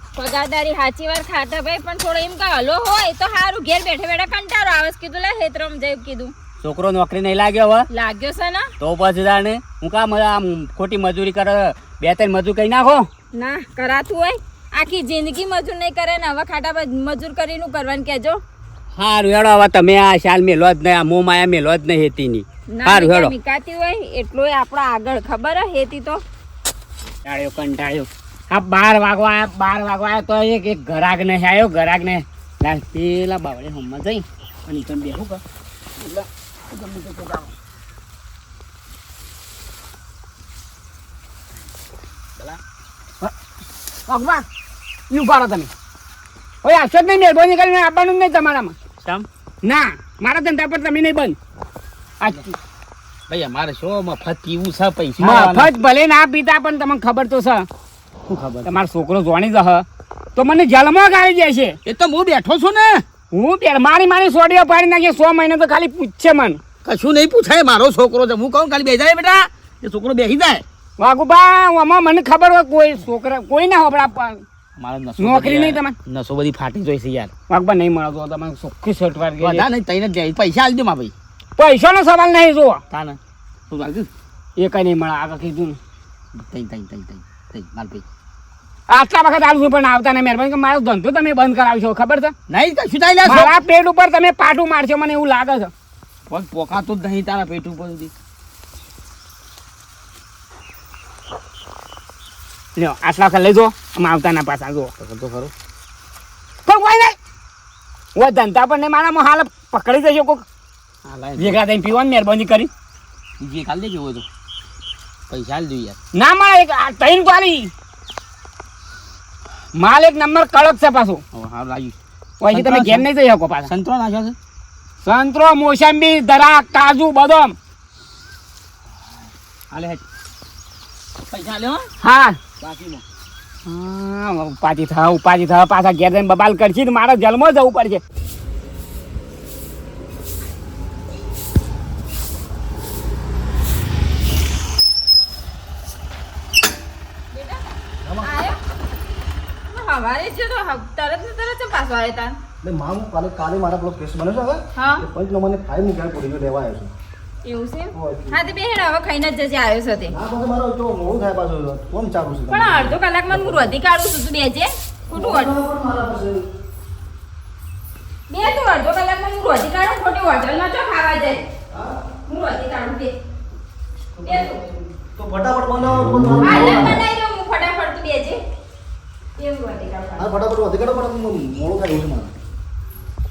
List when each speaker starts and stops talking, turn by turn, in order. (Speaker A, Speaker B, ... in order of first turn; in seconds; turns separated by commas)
Speaker A: 0.1-6.3, Speaker B: 6.6-7.9, Speaker A: 7.9-8.7, Speaker B: 8.8-13.1, Speaker A: 13.3-18.4, Speaker B: 18.9-23.3, Speaker A: 22.7-26.2, Speaker C: 27.2-35.4, Speaker C: 36.0-37.5, Speaker C: 44.1-44.4, Speaker C: 45.1-45.7, Speaker C: 46.6-48.8, Speaker C: 49.6-51.4, Speaker C: 52.2-52.6, Speaker D: 53.3-55.7, Speaker C: 55.2-57.7, Speaker D: 58.3-58.7, Speaker C: 58.6-61.8, Speaker D: 61.8-63.0, Speaker C: 63.3-66.6, Speaker D: 66.8-70.6, Speaker C: 71.0-74.4, Speaker D: 74.8-77.3, Speaker C: 75.2-76.0, Speaker C: 77.5-79.7, Speaker D: 79.4-81.1, Speaker C: 81.6-82.8, Speaker D: 82.9-83.2, Speaker D: 83.7-84.1, Speaker C: 84.6-85.8, Speaker D: 86.4-88.0, Speaker C: 88.9-92.3, Speaker D: 92.5-93.6, Speaker C: 93.2-95.7, Speaker D: 96.3-98.1, Speaker C: 102.8-104.9, Speaker D: 105.0-105.5, Speaker C: 106.7-107.2, Speaker C: 108.2-110.4, Speaker D: 111.0-111.6, Speaker C: 111.4-112.7, Speaker D: 113.4-114.3, Speaker D: 115.3-116.0, Speaker C: 116.1-117.7, Speaker C: 119.8-121.2, Speaker D: 121.3-122.0, Speaker C: 122.4-123.7, Speaker D: 122.5-123.1, Speaker D: 123.7-124.4, Speaker C: 125.0-127.6, Speaker D: 129.7-130.0, Speaker D: 131.3-131.9, Speaker C: 132.0-132.4, Speaker D: 132.6-133.0, Speaker C: 133.7-138.0, Speaker A: 147.3-147.6, Speaker E: 148.0-148.3, Speaker A: 148.2-148.6, Speaker A: 149.7-152.4, Speaker E: 152.6-156.9, Speaker A: 154.8-155.1, Speaker A: 157.4-160.1, Speaker E: 157.9-158.4, Speaker E: 160.1-163.7, Speaker A: 162.5-165.6, Speaker E: 165.1-166.4, Speaker A: 168.3-171.4, Speaker E: 171.7-172.0, Speaker A: 172.2-173.2, Speaker E: 174.2-174.5, Speaker A: 174.2-174.6, Speaker E: 175.2-177.0, Speaker A: 176.4-178.4, Speaker A: 179.4-180.3, Speaker E: 180.2-182.3